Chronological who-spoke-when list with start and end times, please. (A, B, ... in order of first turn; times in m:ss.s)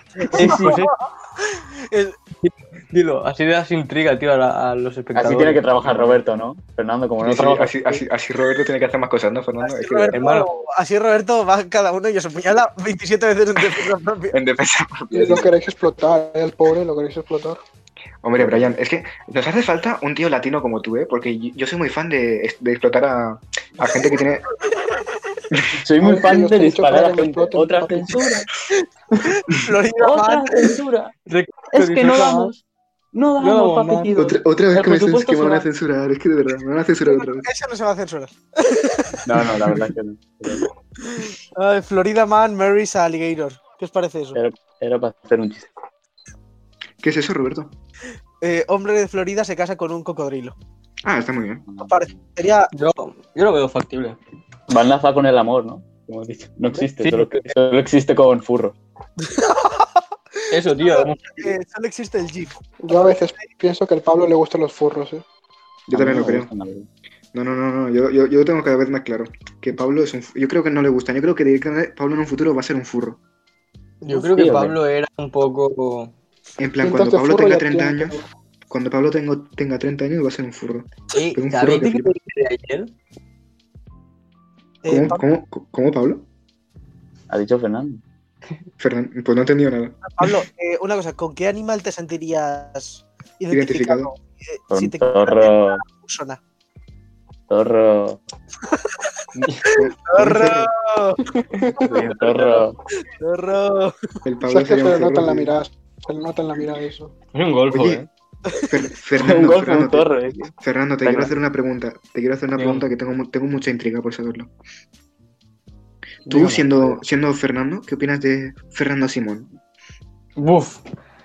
0:00.3-0:00.8 A
0:00.3-0:02.2 B
0:00.3-0:00.9 C
0:02.4-0:06.2 C
0:05.2-0:07.9 A
0:07.2-0:10.2 D
0:09.6-0:14.4 B
0:10.1-0:10.5 C
0:14.3-0:15.5 D
0:15.1-0:17.6 E
0:18.2-0:24.4 D
0:18.4-0:18.7 A
0:24.7-0:25.0 B
0:25.8-0:28.5 A
0:26.0-0:28.4 E
0:29.2-0:30.8 B
0:30.0-0:31.1 A
0:31.3-0:32.5 C
0:31.7-0:32.6 A
0:33.1-0:35.7 A
0:33.4-0:34.1 C
0:34.2-0:37.5 D
0:37.0-0:39.5 B
0:39.3-0:40.7 A
0:40.6-0:44.4 B
0:44.4-0:45.7 A
0:47.0-0:47.7 D
0:48.4-0:50.6 B
0:51.0-0:51.7 D
0:51.8-0:52.7 B
0:52.7-0:54.2 C
0:54.7-0:58.8 A
0:57.0-0:57.5 C
0:59.2-1:00.0 B
1:00.5-1:01.5 C
1:00.8-1:03.5 B
1:02.8-1:05.2 E
1:05.9-1:06.5 D
1:05.9-1:06.9 A
1:07.3-1:13.2 D
1:14.0-1:16.1 C
1:14.1-1:14.8 A
1:16.6-1:22.1 D
1:16.8-1:18.3 E
1:21.1-1:22.9 C
1:24.8-1:25.2 B
1:24.9-1:26.3 D
1:27.3-1:28.0 A
1:28.8-1:30.0 D
1:30.0-1:36.4 B
1:33.5-1:34.1 D
1:34.7-1:35.8 A
1:37.5-1:38.2 A
1:38.7-1:39.0 B
1:39.7-1:40.7 D
1:39.7-1:41.2 B
1:41.4-1:42.0 E
1:41.8-1:42.8 A
1:43.2-1:44.0 B
1:44.2-1:45.6 D
1:44.5-1:47.1 E
1:47.3-1:48.1 C
1:47.7-1:48.0 D
1:48.7-1:54.5 D
1:49.2-1:50.5 A
1:51.0-1:51.3 A
1:52.6-1:52.9 C
1:56.3-1:56.8 C
1:56.3-1:59.5 D
2:00.4-2:00.8 C